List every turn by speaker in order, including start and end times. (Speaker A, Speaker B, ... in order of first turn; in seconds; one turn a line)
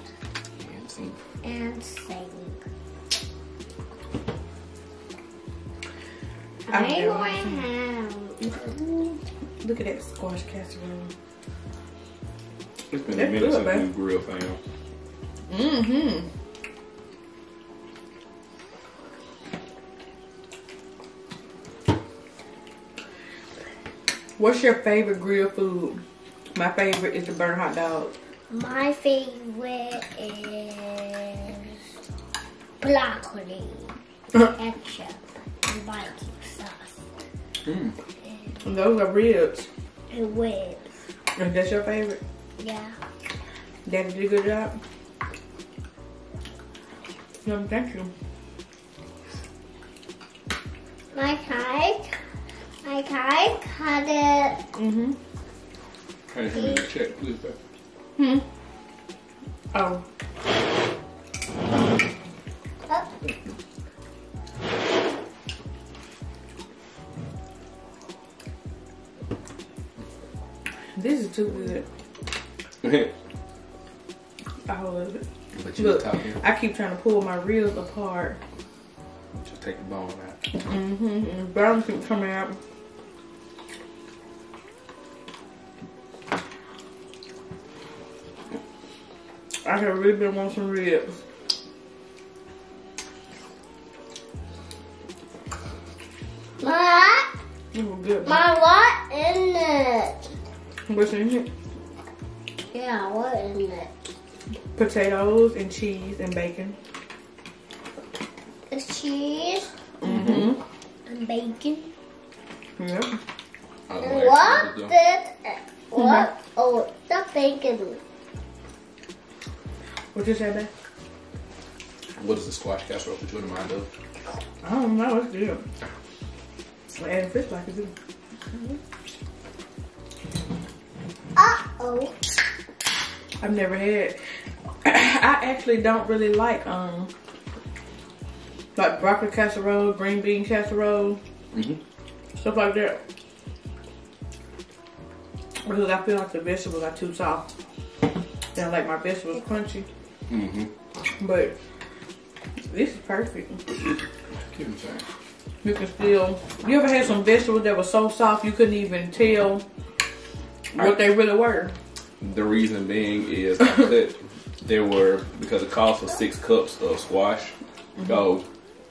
Speaker A: 0.6-1.2
Speaker B: 1.4-2.6
Speaker B: 6.7-8.4
Speaker C: 6.7-7.6
Speaker C: 8.5-11.1
Speaker A: 12.9-14.6
Speaker C: 13.1-13.9
Speaker C: 15.5-16.3
Speaker C: 24.4-26.0
Speaker C: 26.6-28.1
Speaker B: 28.5-31.8
Speaker B: 32.8-37.0
Speaker A: 37.6-38.0
Speaker C: 38.6-39.7
Speaker B: 40.1-40.9
Speaker C: 41.4-42.2
Speaker B: 42.6-43.0
Speaker C: 43.9-44.8
Speaker C: 47.5-48.1
Speaker B: 51.1-52.2
Speaker B: 52.8-54.6
Speaker C: 54.8-55.2
Speaker A: 56.3-57.6
Speaker B: 56.5-56.8
Speaker C: 58.2-58.4
Speaker C: 59.7-60.0
Speaker B: 62.9-63.1
Speaker C: 71.0-71.9
Speaker A: 72.8-73.1
Speaker C: 74.7-75.2
Speaker A: 75.5-76.4
Speaker C: 75.8-78.4
Speaker A: 79.3-80.4
Speaker C: 80.5-82.6
Speaker C: 89.6-91.2
Speaker B: 96.6-97.3
Speaker C: 97.7-98.4
Speaker B: 98.2-100.3
Speaker C: 100.9-101.5
Speaker B: 102.7-103.9
Speaker C: 104.8-106.8
Speaker B: 108.7-109.7
Speaker C: 110.0-110.6
Speaker A: 110.0-110.5
Speaker B: 111.1-111.9
Speaker C: 112.8-113.1
Speaker A: 113.9-114.9
Speaker B: 114.0-118.0
Speaker C: 116.0-116.3
Speaker C: 120.1-120.7
Speaker A: 122.2-123.9
Speaker C: 124.6-125.6
Speaker C: 126.9-127.9
Speaker B: 131.4-132.2
Speaker C: 133.4-134.2
Speaker C: 134.8-137.1
Speaker C: 138.8-141.2
Speaker A: 141.5-141.8
Speaker C: 142.3-143.0
Speaker C: 145.6-147.5
Speaker C: 148.6-149.9
Speaker A: 150.3-150.7
Speaker C: 151.2-151.6
Speaker C: 152.7-153.6
Speaker A: 154.4-155.1
Speaker C: 155.6-159.7
Speaker C: 160.7-161.8
Speaker A: 162.2-168.5